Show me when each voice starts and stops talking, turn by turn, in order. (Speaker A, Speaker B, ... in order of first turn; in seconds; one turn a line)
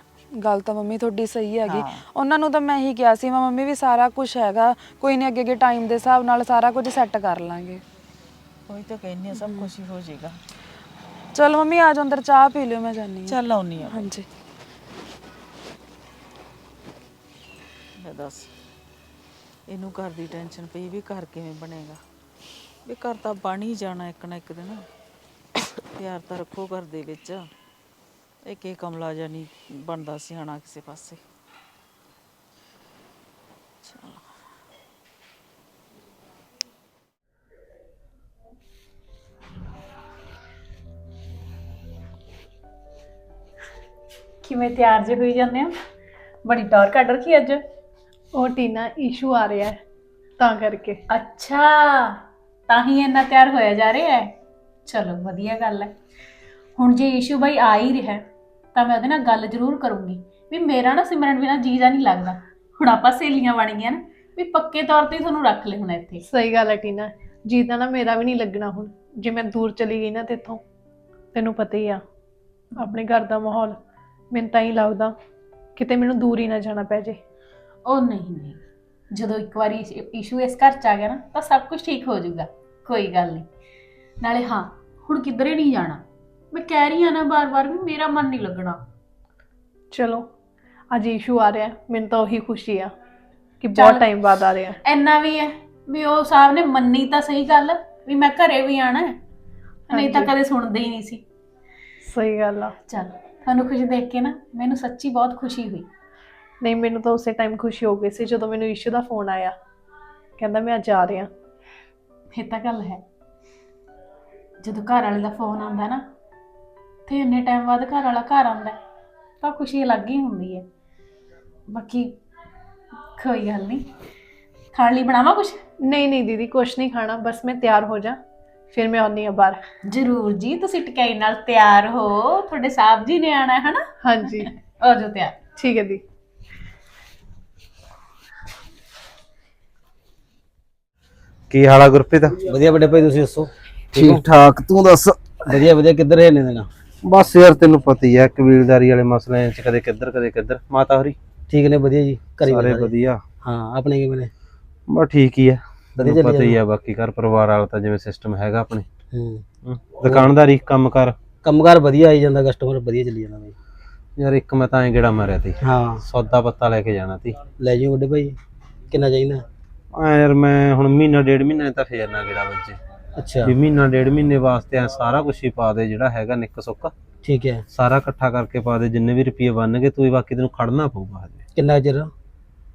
Speaker A: 0.4-7.8
Speaker B: 1.7-2.0
Speaker B: 8.7-10.4
Speaker A: 9.3-9.7
Speaker A: 11.3-14.3
Speaker B: 13.3-14.1
Speaker B: 18.0-18.5
Speaker B: 19.7-22.0
Speaker B: 22.9-24.9
Speaker B: 25.9-27.5
Speaker B: 28.4-31.2
Speaker B: 33.8-34.2
Speaker C: 44.4-45.7
Speaker C: 46.5-47.6
Speaker D: 48.3-49.8
Speaker D: 50.4-51.0
Speaker C: 51.1-54.3
Speaker C: 54.9-55.9
Speaker C: 56.8-66.2
Speaker D: 66.3-70.6
Speaker D: 71.3-72.0
Speaker D: 72.8-73.8
Speaker D: 74.3-75.1
Speaker D: 75.8-77.2
Speaker C: 77.8-78.6
Speaker C: 79.1-83.5
Speaker C: 84.2-88.8
Speaker D: 89.9-90.3
Speaker D: 90.9-92.9
Speaker D: 93.6-94.8
Speaker C: 93.7-94.1
Speaker C: 94.8-99.2
Speaker D: 99.9-100.3
Speaker C: 99.9-101.2
Speaker D: 102.0-102.7
Speaker C: 102.9-105.9
Speaker D: 106.6-109.5
Speaker D: 110.4-111.3
Speaker C: 112.3-113.0
Speaker C: 114.6-116.0
Speaker C: 117.1-118.8
Speaker C: 119.4-120.7
Speaker C: 121.7-122.2
Speaker C: 123.2-123.9
Speaker C: 124.7-125.6
Speaker D: 125.8-128.2
Speaker D: 128.7-129.6
Speaker C: 129.9-135.4
Speaker D: 134.0-134.5
Speaker D: 135.6-136.0
Speaker E: 141.5-142.4
Speaker F: 142.4-144.2
Speaker E: 143.9-145.4
Speaker F: 145.5-146.7
Speaker E: 147.0-151.2
Speaker F: 151.5-152.9
Speaker E: 152.5-153.2
Speaker F: 153.4-154.3
Speaker E: 154.9-158.8
Speaker F: 156.0-156.6
Speaker F: 159.1-159.4
Speaker E: 159.6-161.1
Speaker F: 160.0-160.3
Speaker F: 161.4-163.5
Speaker E: 164.2-167.4
Speaker F: 165.6-166.0
Speaker F: 167.6-168.3
Speaker F: 168.9-169.4
Speaker E: 169.9-172.8
Speaker F: 173.2-173.5
Speaker E: 173.4-176.9
Speaker F: 177.2-177.6
Speaker E: 177.7-181.4
Speaker F: 181.5-182.1